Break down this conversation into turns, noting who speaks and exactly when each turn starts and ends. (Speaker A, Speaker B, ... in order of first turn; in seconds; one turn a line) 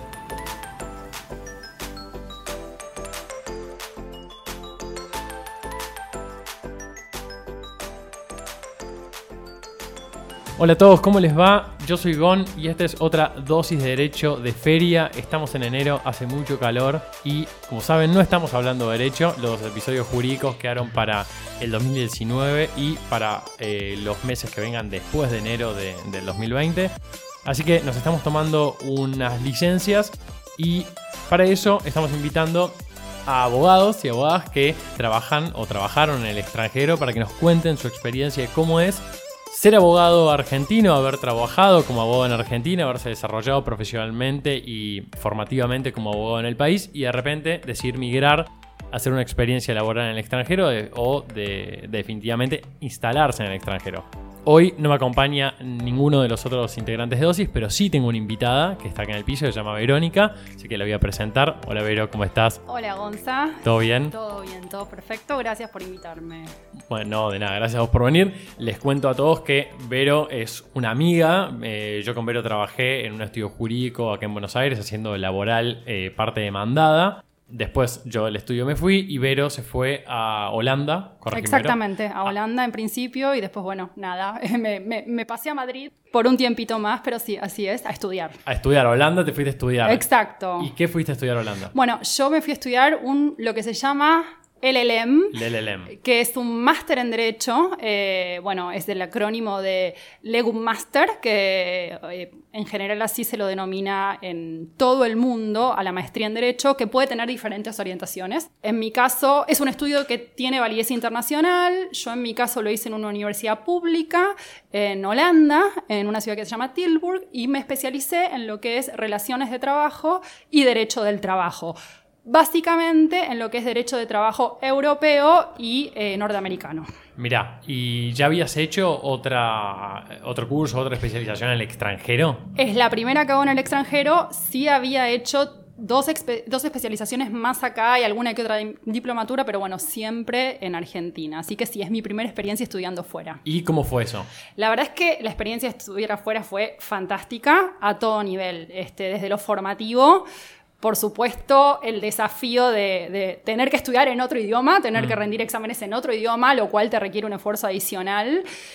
Speaker A: 10.6-26.9
Speaker A: 27.4-62.6
Speaker B: 62.7-66.5
Speaker A: 63.6-64.1
Speaker A: 66.9-82.3
Speaker B: 81.3-88.4
Speaker A: 88.5-90.0
Speaker B: 89.8-90.7
Speaker A: 90.6-91.7
Speaker B: 91.7-95.4
Speaker A: 95.3-95.9
Speaker B: 95.9-126.9
Speaker A: 127.2-132.4
Speaker B: 132.6-143.4
Speaker A: 143.4-144.3
Speaker B: 144.6-150.2
Speaker B: 150.8-158.5